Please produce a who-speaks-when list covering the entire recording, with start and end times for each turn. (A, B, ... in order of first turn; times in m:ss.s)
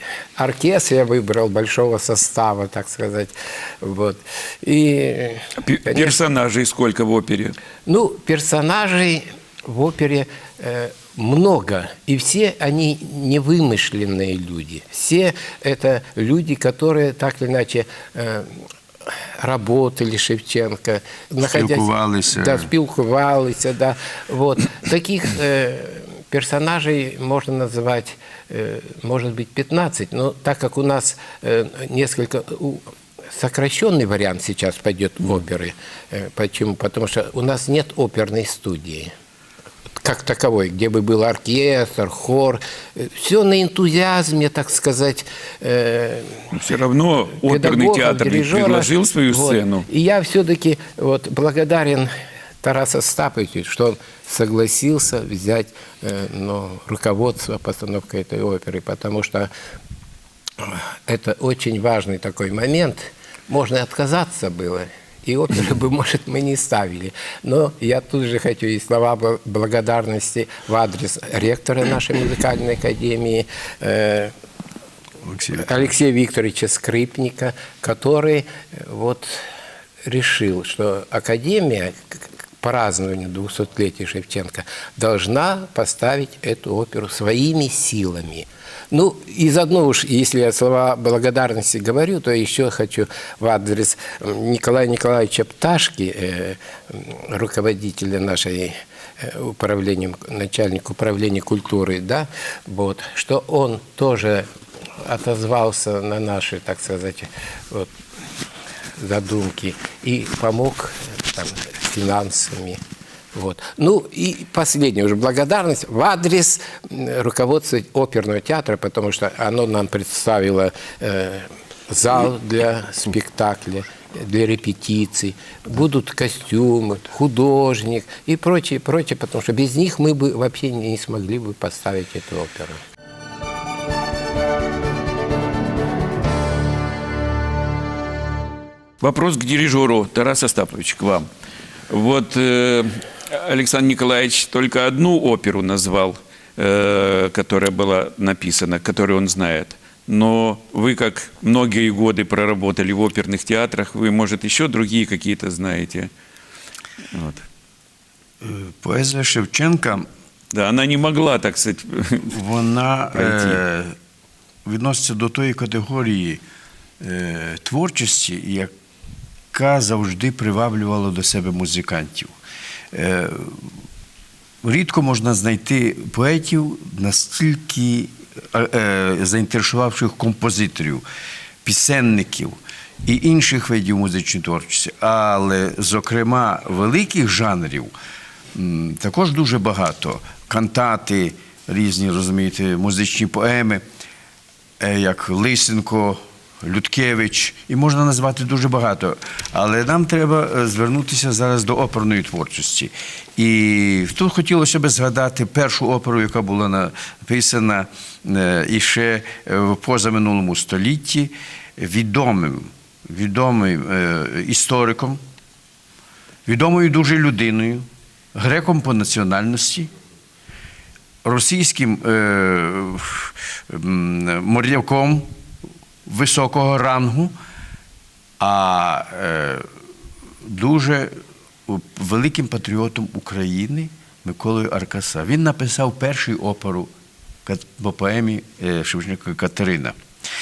0:00.4-0:06.2 A
0:05.6-0:07.6 B
0:07.8-0:18.6 A
0:19.4-0:32.8 A
0:21.4-0:22.7 C
0:33.3-0:39.1 A
0:40.0-0:46.5 A
0:46.5-0:49.8 B
0:47.4-0:52.1 A
0:52.6-0:59.5 A
1:00.6-1:14.3 A
1:15.2-1:15.8 C
1:15.5-1:19.4 A
1:20.0-1:44.4 A
1:45.0-1:47.9 A
1:49.0-1:52.8 A
1:53.3-2:12.8 A
2:19.0-2:21.2 B
2:21.9-2:36.1 B
2:37.1-2:37.4 B
2:38.4-2:40.1 C
2:40.5-2:42.3 B
2:42.3-2:44.0 C
2:43.1-2:43.6 B
2:44.6-2:46.4 C
2:47.0-2:48.7 C
2:49.5-2:52.3 C
2:52.9-2:53.7 C
2:54.6-3:01.0 C
3:01.6-3:07.9 C
3:08.5-3:13.8 C
3:14.8-3:35.2 C
3:36.4-3:39.9 C
3:41.2-3:45.3 C
3:46.0-3:47.4 C
3:48.4-3:49.7 C
3:50.4-3:51.2 C
3:51.7-3:56.9 C
3:57.4-4:00.0 C